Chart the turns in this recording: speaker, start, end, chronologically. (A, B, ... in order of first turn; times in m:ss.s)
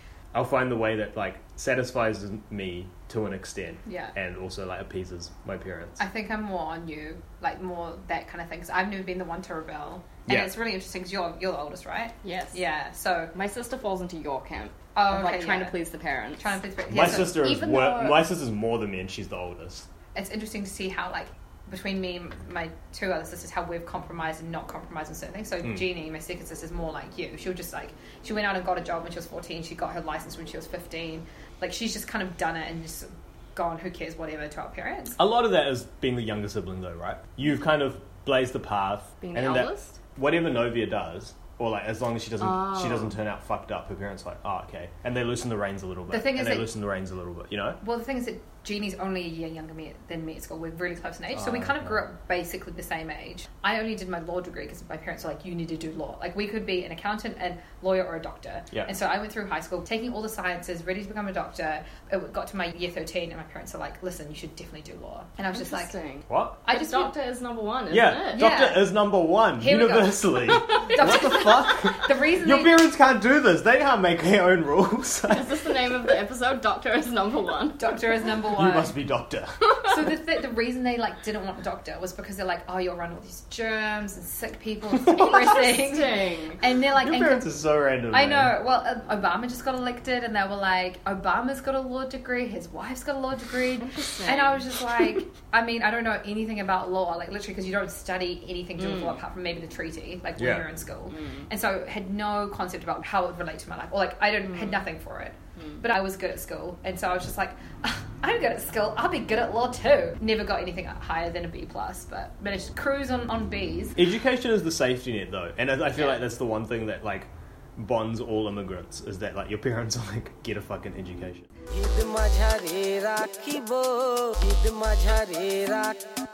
0:00.3-0:06.0 A
0:03.8-0:04.1 B
0:06.0-0:13.3 B
0:10.2-0:10.5 A
0:12.2-0:12.6 C
0:13.3-0:18.3 C
0:14.9-0:15.8 B
0:16.4-0:17.4 B
0:16.9-0:19.8 A
0:20.1-0:35.2 B
0:35.2-0:47.8 A
0:39.2-0:40.0 C
0:42.4-0:43.0 C
0:46.1-0:46.7 B
0:47.8-1:05.9 B
0:51.3-0:52.0 A
1:05.5-1:08.5 C
1:06.3-1:06.6 A
1:06.6-1:07.1 B
1:07.9-1:15.7 A
1:08.3-1:08.9 B
1:09.6-1:12.8 B
1:10.7-1:11.1 C
1:15.3-1:18.0 C
1:17.8-1:18.9 B
1:18.5-1:20.0 A
1:19.8-1:27.5 B
1:25.0-1:25.4 A
1:25.4-1:26.6 C
1:27.0-1:28.5 A
1:28.1-1:54.0 B
1:33.8-1:34.7 C
1:38.8-1:39.2 C
1:40.4-1:40.7 A
1:41.1-1:41.5 C
1:44.5-1:44.8 C
1:45.6-1:45.8 C
1:54.0-2:01.5 A
2:01.7-2:06.0 D